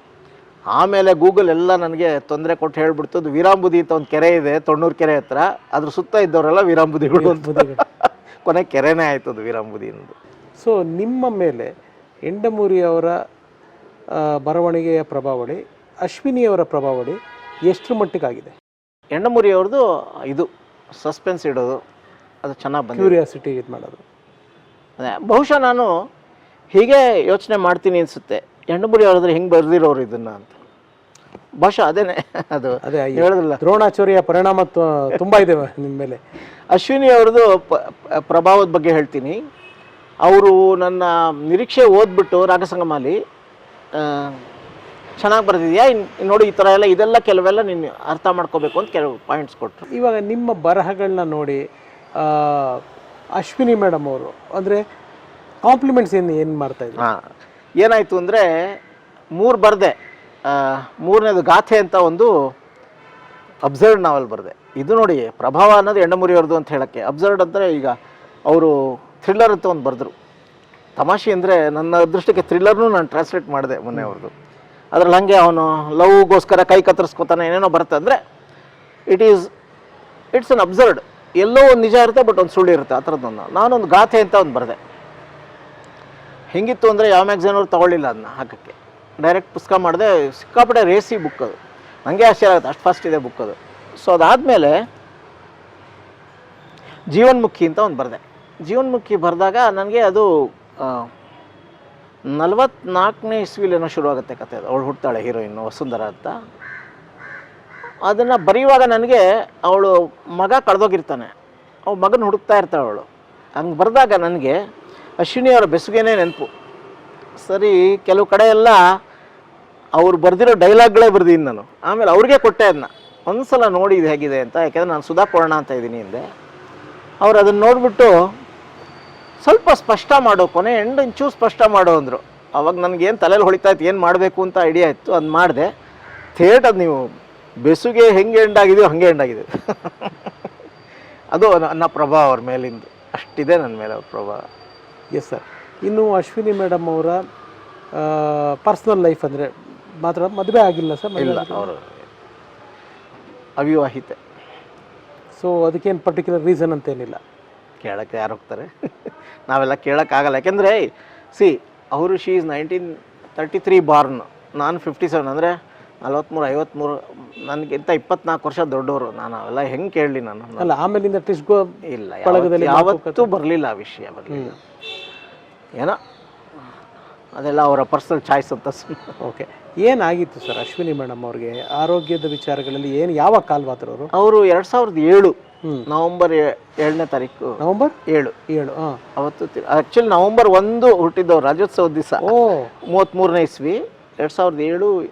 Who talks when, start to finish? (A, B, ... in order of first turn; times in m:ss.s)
0:00.7-0:10.1 A
0:07.2-0:07.8 B
0:10.6-0:11.7 B
0:12.2-0:13.1 B
0:14.2-0:18.5 B
0:19.1-0:20.5 A
0:21.0-0:21.8 A
0:22.4-0:23.2 A
0:23.0-0:24.0 B
0:25.0-0:25.9 A
0:26.7-0:30.6 A
0:31.6-0:33.6 A
0:32.8-0:36.2 B
0:36.7-0:39.4 A
0:40.2-0:43.2 A
0:44.0-0:44.4 A
0:45.2-0:49.8 A
0:49.9-0:51.6 B
0:52.2-0:52.8 B
0:53.4-0:54.8 B
0:55.7-0:57.0 B
0:57.0-0:57.3 A
0:57.8-0:58.8 A
0:59.4-1:00.0 A
1:00.5-1:02.3 A
1:03.6-1:07.9 A
1:08.5-1:10.1 A
1:11.0-1:14.3 A
1:14.9-1:18.2 A
1:19.1-1:19.5 A
1:20.3-1:24.8 A
1:26.5-1:34.7 A
1:37.1-1:41.1 A
1:42.3-1:46.3 A
1:48.0-1:51.3 A
1:51.9-1:53.1 A
1:53.6-1:54.6 A
1:55.2-1:56.5 A
1:57.4-1:58.9 A
2:00.0-2:06.2 A
2:07.2-2:08.3 A
2:09.4-2:15.7 A
2:16.4-2:17.0 A
2:17.6-2:20.3 A
2:21.3-2:24.4 A
2:25.1-2:27.2 B
2:28.0-2:31.7 B
2:31.2-2:31.9 A
2:33.6-2:34.2 A
2:35.4-2:37.2 B
2:37.8-2:50.7 A
2:50.6-2:51.7 B
2:51.9-2:54.6 A
2:52.2-2:53.3 B
2:57.4-2:59.1 A
2:59.2-3:04.1 B
3:04.1-3:05.3 A
3:05.9-3:08.3 A
3:07.6-3:07.9 B
3:08.5-3:09.0 B
3:09.2-3:12.2 A
3:12.2-3:12.7 B
3:12.8-3:14.9 A